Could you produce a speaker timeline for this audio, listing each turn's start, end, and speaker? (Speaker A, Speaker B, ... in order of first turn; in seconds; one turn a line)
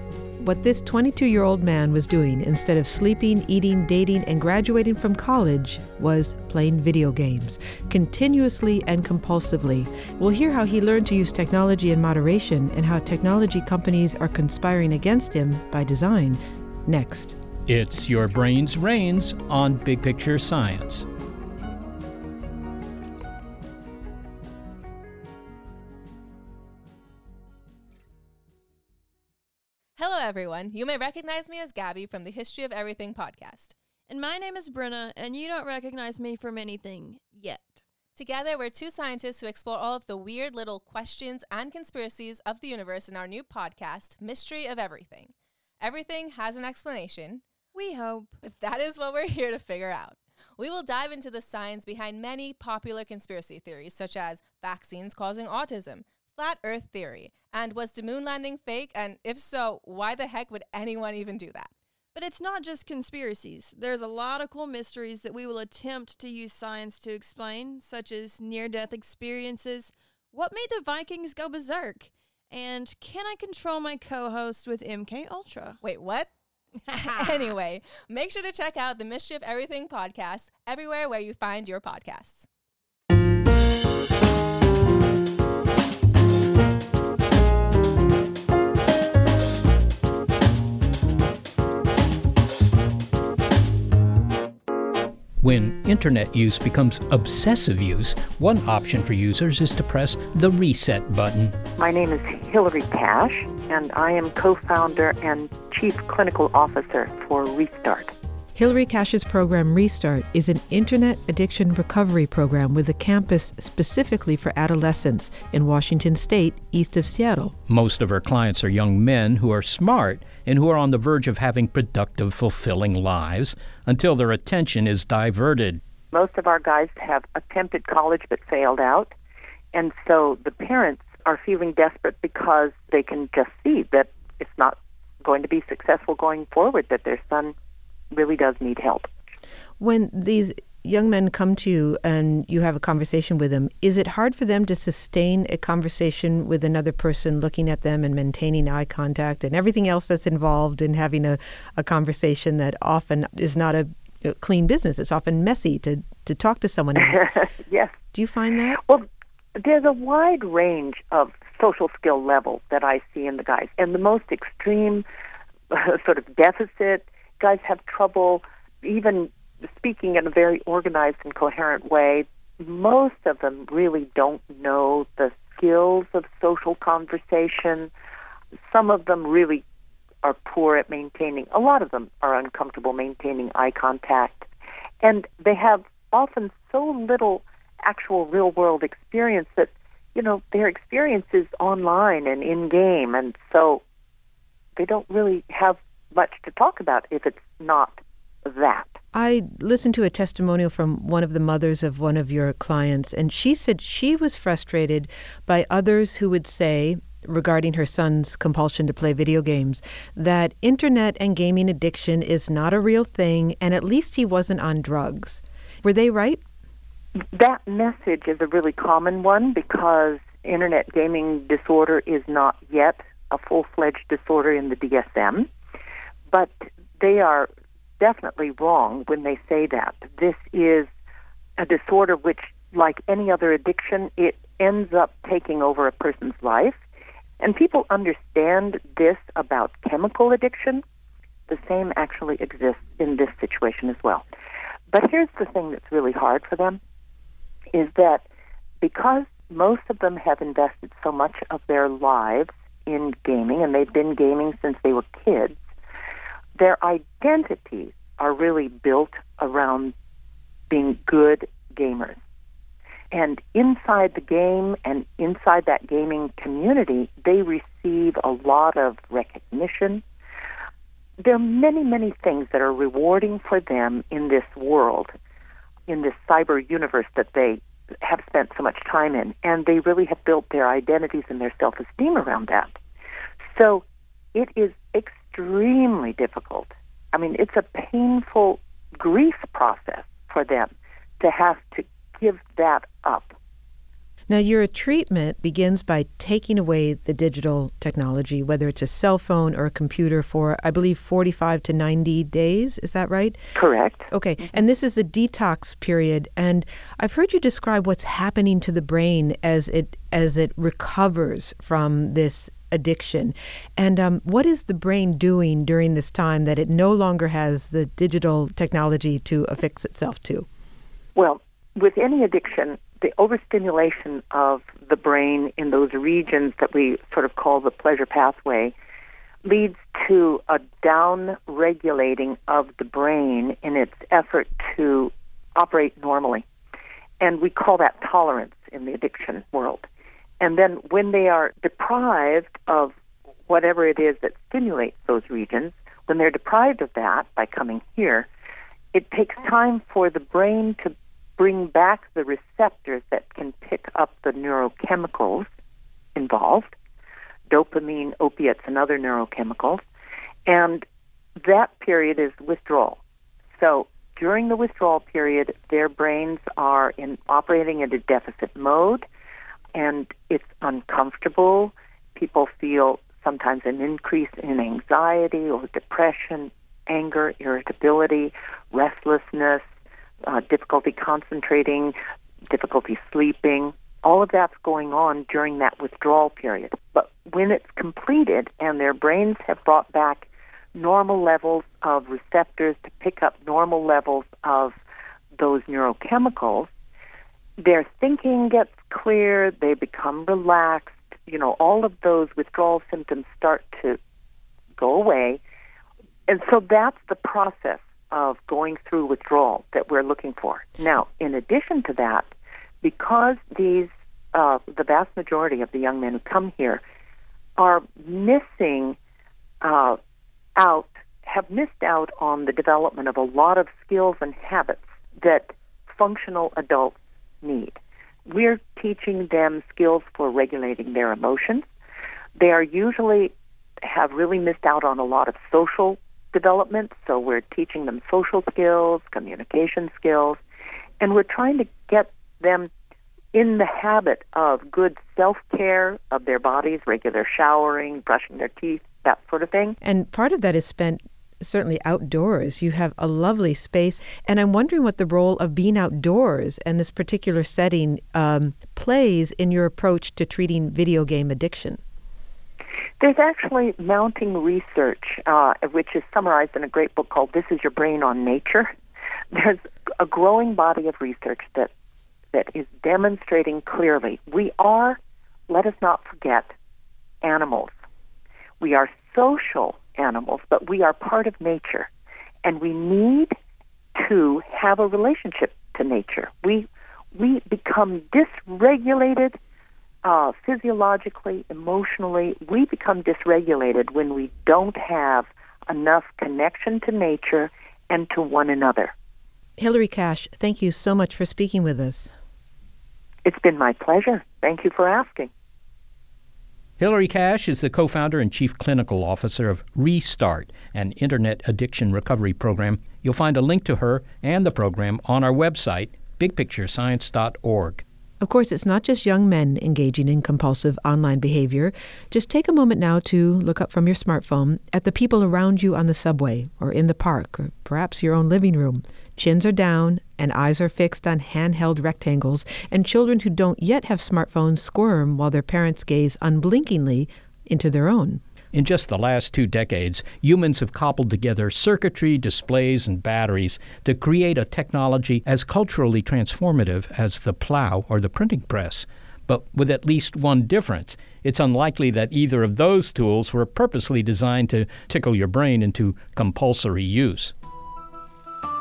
Speaker A: 0.4-17.4
Speaker B: 17.7-21.1
Speaker C: 30.0-33.8
Speaker D: 34.1-37.8
Speaker C: 38.2-47.4
Speaker D: 47.7-48.4
Speaker C: 48.4-61.7
Speaker D: 62.1-75.8
Speaker C: 75.8-76.3
Speaker C: 76.9-82.5
Speaker B: 95.4-101.6
Speaker E: 101.8-108.1
Speaker A: 108.6-117.5
Speaker B: 117.7-125.8
Speaker E: 126.1-129.1
Speaker E: 129.7-137.5
Speaker E: 138.1-139.1
Speaker A: 139.8-157.3
Speaker E: 157.1-158.0
Speaker A: 158.1-158.8
Speaker E: 159.6-165.1
Speaker E: 165.7-177.9
Speaker E: 178.7-179.6
Speaker E: 180.2-184.5
Speaker E: 185.0-193.8
Speaker E: 194.8-199.0
Speaker A: 199.1-216.4
Speaker E: 217.2-225.5
Speaker E: 226.3-230.9
Speaker E: 231.6-236.8
Speaker E: 237.4-240.8
Speaker E: 241.5-244.2
Speaker E: 244.9-246.8
Speaker E: 247.7-248.2
Speaker E: 248.8-255.6
Speaker E: 256.6-259.9
Speaker E: 260.7-262.2
Speaker E: 263.1-270.0
Speaker E: 271.2-275.1
Speaker E: 275.9-282.8
Speaker E: 283.5-293.4
Speaker A: 294.3-303.4
Speaker E: 303.6-304.1
Speaker A: 304.1-320.5
Speaker E: 321.2-328.7
Speaker E: 329.4-336.4
Speaker E: 337.2-339.9
Speaker E: 340.4-342.9
Speaker E: 343.5-348.3
Speaker E: 348.9-355.5
Speaker E: 356.2-356.7
Speaker E: 357.5-359.8
Speaker E: 360.5-360.9
Speaker E: 361.4-363.0
Speaker E: 363.6-369.1
Speaker E: 369.8-379.6
Speaker E: 380.3-382.0
Speaker E: 382.5-394.8
Speaker E: 395.4-396.7
Speaker E: 397.6-404.0
Speaker E: 404.8-405.4
Speaker E: 406.3-412.3
Speaker E: 412.8-416.8
Speaker E: 417.6-419.0
Speaker E: 419.6-420.0
Speaker E: 420.6-431.7
Speaker E: 432.4-440.4
Speaker E: 441.0-442.7
Speaker E: 443.3-449.8
Speaker A: 449.8-461.8
Speaker E: 463.0-468.7
Speaker E: 469.3-471.7
Speaker E: 472.3-475.0
Speaker E: 475.5-476.5
Speaker E: 477.2-477.7
Speaker E: 478.6-481.9
Speaker E: 482.4-483.4
Speaker E: 484.0-489.4
Speaker E: 490.0-498.9
Speaker A: 499.6-502.1
Speaker E: 503.2-505.3
Speaker B: 506.8-517.8
Speaker A: 518.2-538.2
Speaker B: 538.5-557.3